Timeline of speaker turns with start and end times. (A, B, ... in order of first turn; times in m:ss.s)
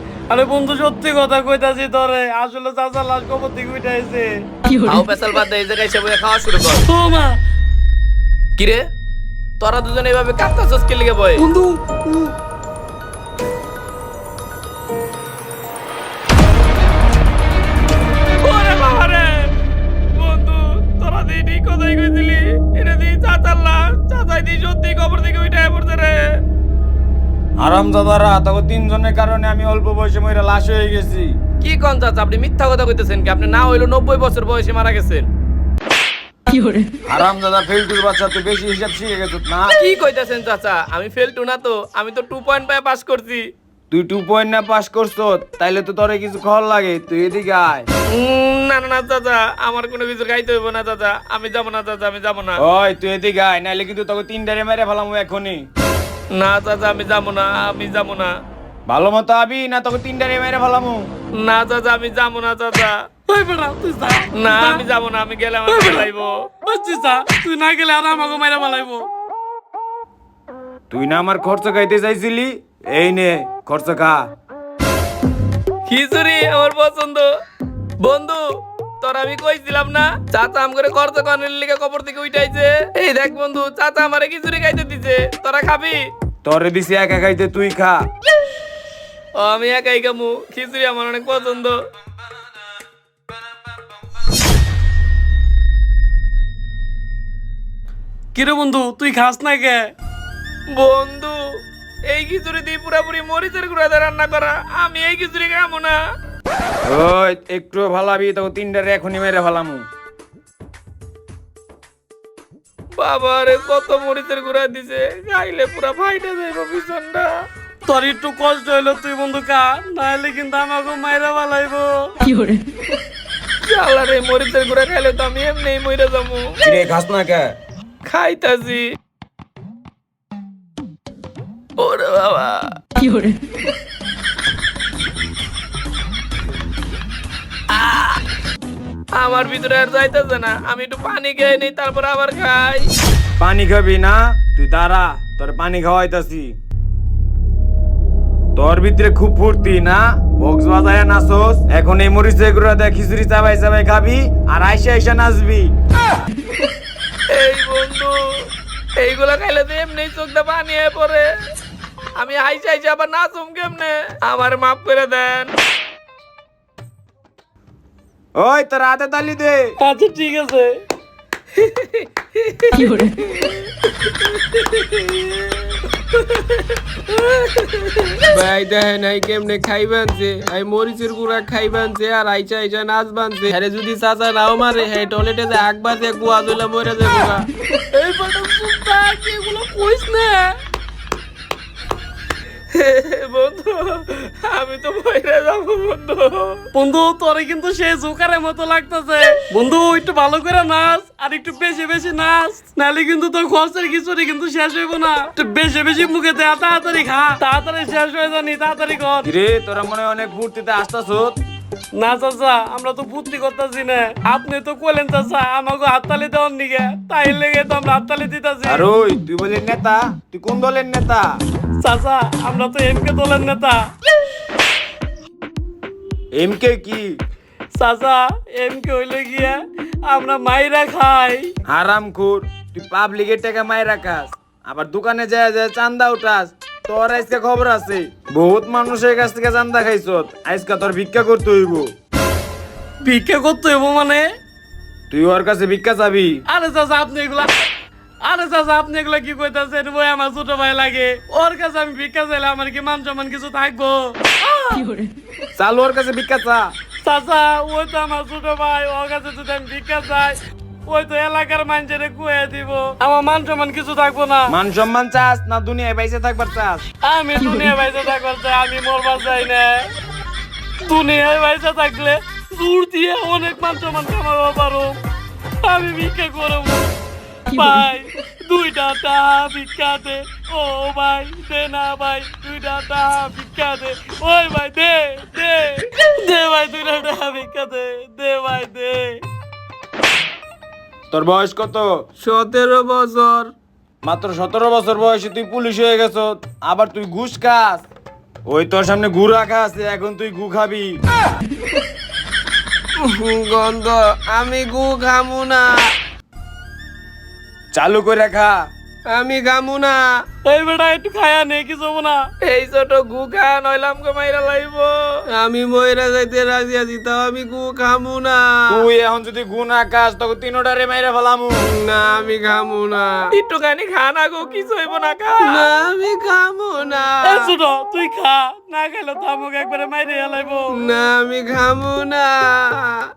0:00.3-0:04.3 A
0:04.8-0:06.9 B
0:06.9-0:07.4 A
0:08.6-0:08.8 B
0:09.6-0:11.4 B
0:11.4-0:12.3 A
0:18.4-0:19.5 B
0:20.2-0:26.2 B
0:27.6-0:31.4 C
0:31.6-0:35.3 B
0:37.1-0:39.8 C
0:39.8-0:43.4 B
0:43.9-0:47.9 C
0:48.1-0:52.6 B
0:52.6-0:55.6 C
0:56.4-0:58.3 B
0:58.9-1:01.0 C
1:01.4-1:02.9 B
1:03.3-1:04.8 A
1:04.4-1:06.3 B
1:05.7-1:06.1 A
1:06.7-1:09.0 A
1:10.9-1:14.3 C
1:15.9-1:17.3 B
1:18.0-1:18.4 B
1:19.0-1:26.0 B
1:26.4-1:28.0 C
1:29.4-1:31.8 B
1:38.4-1:39.9 A
1:40.8-1:41.4 B
1:42.1-1:46.0 B
1:46.9-1:49.8 C
1:53.0-1:57.3 B
1:57.9-2:01.9 A
2:03.7-2:06.6 B
2:06.6-2:07.5 C
2:08.0-2:09.0 B
2:11.8-2:12.8 B
2:17.7-2:18.2 B
2:19.1-2:22.9 B
2:23.4-2:26.6 C
2:28.6-2:35.7 C
2:37.3-2:38.2 B
2:39.0-2:41.3 B
2:42.2-2:45.5 B
2:48.4-2:49.8 C
2:49.8-2:50.7 A
2:51.6-2:53.6 B
2:54.2-2:58.2 B
2:58.3-3:07.4 D
3:07.9-3:10.6 A
3:12.7-3:16.6 B
3:16.7-3:29.3 A
3:29.2-3:31.4 C
3:32.0-3:38.8 A
3:38.7-3:41.3 C
3:41.8-3:43.8 A
3:46.4-3:47.1 C
3:47.8-3:51.5 A
3:51.7-4:01.9 C
4:03.0-4:04.2 A
4:05.1-4:06.4 C
4:06.5-4:07.5 A
4:08.3-4:15.1 A
4:15.6-4:16.7 C
4:17.0-4:24.5 A
4:24.5-4:26.8 C
4:27.0-4:29.9 A
4:30.8-4:35.0 A
4:35.6-4:36.9 A
4:37.5-4:49.2 A
4:51.1-4:51.9 C
4:52.2-4:53.5 D
4:54.0-4:57.9 C
4:58.5-5:00.9 C
5:03.0-5:05.9 D
5:07.7-5:08.6 C
5:09.1-5:10.0 D
5:10.4-5:12.2 A
5:12.4-5:15.0 B
5:15.4-5:18.8 D
5:18.7-5:21.5 C
5:21.6-5:23.2 D
5:23.3-5:25.6 B
5:25.4-5:27.5 D
5:27.2-5:30.8 A
5:30.8-5:33.0 D